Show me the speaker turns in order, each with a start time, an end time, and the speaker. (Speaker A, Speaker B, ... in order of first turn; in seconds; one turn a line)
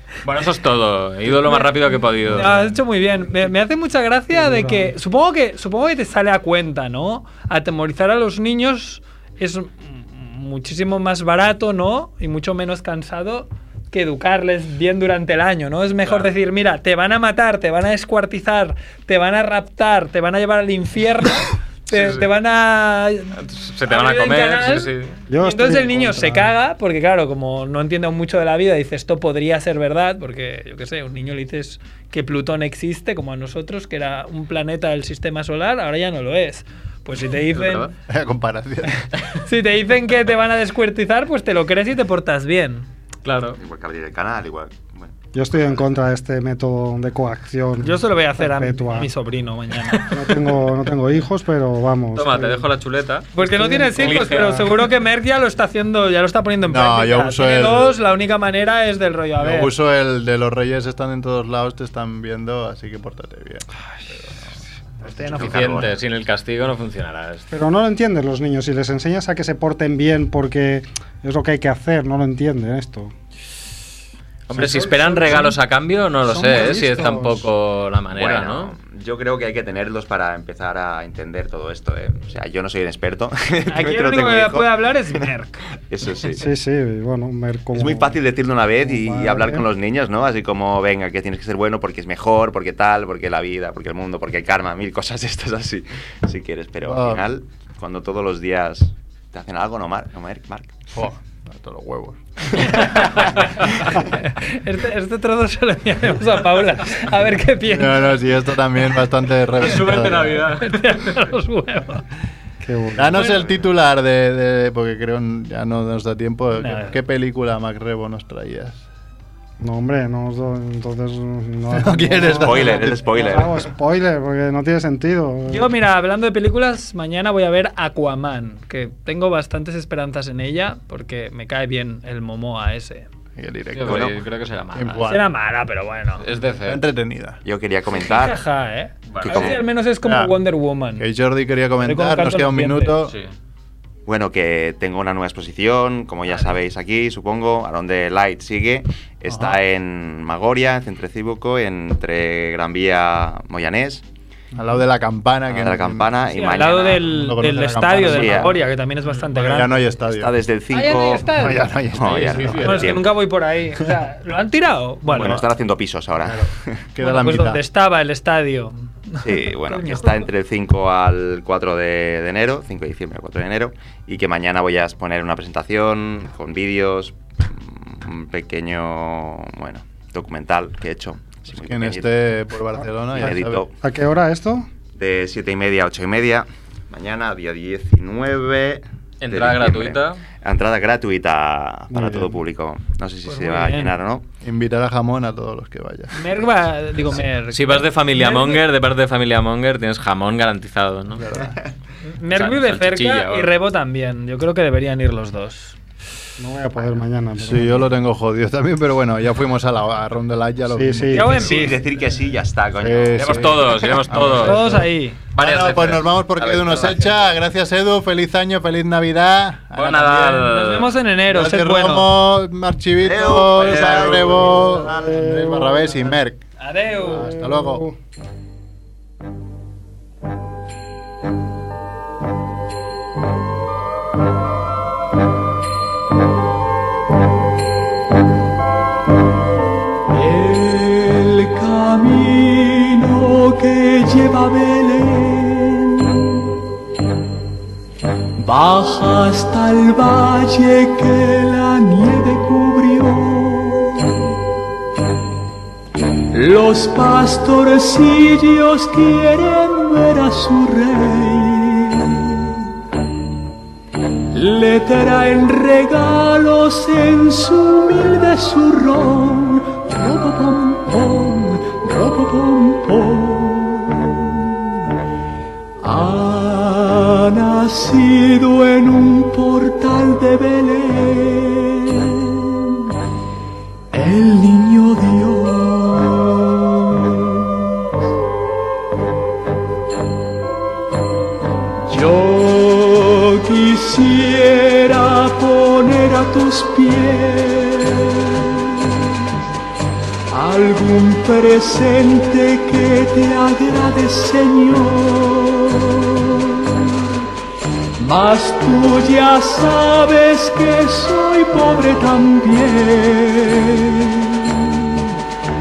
Speaker A: 0.2-2.7
Speaker B: 1.4-37.9
Speaker C: 4.3-4.9
Speaker A: 16.1-16.3
Speaker A: 21.9-22.3
Speaker A: 23.4-25.2
Speaker C: 25.3-26.5
Speaker A: 37.5-37.9
Speaker D: 38.1-39.1
Speaker B: 39.4-42.9
Speaker A: 43.2-43.6
Speaker E: 43.6-46.0
Speaker C: 45.3-49.1
Speaker B: 47.8-50.1
Speaker A: 49.9-50.6
Speaker C: 50.1-52.7
Speaker A: 52.1-53.3
Speaker B: 53.4-59.7
Speaker C: 53.4-54.7
Speaker A: 54.0-54.8
Speaker D: 56.6-58.0
Speaker D: 59.4-65.8
Speaker B: 65.1-65.8
Speaker E: 65.1-65.9
Speaker A: 65.4-67.5
Speaker C: 67.5-73.2
Speaker A: 74.5-78.8
Speaker C: 74.5-75.6
Speaker C: 76.2-77.5
Speaker E: 78.1-85.2
Speaker B: 83.7-85.6
Speaker E: 85.9-86.5
Speaker C: 86.4-88.2
Speaker E: 87.7-100.8
Speaker C: 88.8-89.6
Speaker D: 96.8-97.2
Speaker D: 100.9-102.8
Speaker B: 102.6-108.2
Speaker E: 102.6-103.5
Speaker D: 107.6-110.5
Speaker A: 109.6-110.9
Speaker B: 110.5-112.0
Speaker C: 112.6-113.3
Speaker D: 113.0-118.8
Speaker E: 113.2-113.6
Speaker B: 116.5-117.0
Speaker C: 119.6-125.7
Speaker D: 121.7-123.0
Speaker E: 122.2-123.7
Speaker B: 125.5-133.1
Speaker D: 133.4-134.1
Speaker A: 133.7-135.1
Speaker E: 133.8-134.1
Speaker D: 134.7-135.2
Speaker B: 135.0-136.2
Speaker A: 136.2-136.8
Speaker D: 136.6-137.4
Speaker E: 137.4-138.4
Speaker B: 137.9-141.1
Speaker A: 139.1-139.6
Speaker E: 139.2-139.6
Speaker D: 140.0-140.4
Speaker D: 140.9-143.2
Speaker B: 141.8-143.0
Speaker A: 143.1-143.3
Speaker E: 144.1-154.1
Speaker D: 149.3-149.6
Speaker D: 154.5-156.1
Speaker E: 155.5-157.2
Speaker B: 156.3-159.8
Speaker D: 157.0-160.3
Speaker E: 158.0-158.6
Speaker E: 160.0-163.2
Speaker B: 160.7-161.7
Speaker D: 161.2-162.9
Speaker A: 162.1-163.0
Speaker B: 162.4-165.4
Speaker E: 165.1-166.8
Speaker D: 165.1-165.5
Speaker D: 166.2-167.6
Speaker B: 167.0-170.3
Speaker E: 169.2-182.1
Speaker D: 181.5-183.7
Speaker E: 183.1-183.8
Speaker C: 183.2-184.7
Speaker E: 185.0-194.3
Speaker A: 189.2-190.2
Speaker C: 191.9-192.4
Speaker B: 193.3-193.9
Speaker D: 194.4-196.1
Speaker B: 196.1-198.6
Speaker A: 197.5-201.3
Speaker D: 201.2-201.6
Speaker B: 202.0-205.8
Speaker A: 202.3-203.5
Speaker C: 206.4-207.9
Speaker D: 207.4-211.7
Speaker C: 210.7-211.6
Speaker B: 211.1-211.8
Speaker E: 211.3-213.8
Speaker D: 212.8-220.6
Speaker A: 213.2-216.1
Speaker B: 214.4-215.2
Speaker E: 216.3-217.2
Speaker A: 219.8-220.9
Speaker B: 220.5-222.1
Speaker D: 221.3-226.4
Speaker E: 223.0-225.2
Speaker C: 224.4-226.1
Speaker B: 226.6-227.3
Speaker D: 227.0-227.9
Speaker C: 227.1-228.0
Speaker F: 240.1-246.3
Speaker F: 248.4-254.3
Speaker F: 256.3-262.6
Speaker F: 264.3-274.7
Speaker F: 275.8-282.9
Speaker F: 283.9-287.7
Speaker F: 291.9-299.3
Speaker F: 300.3-307.1
Speaker F: 308.0-315.2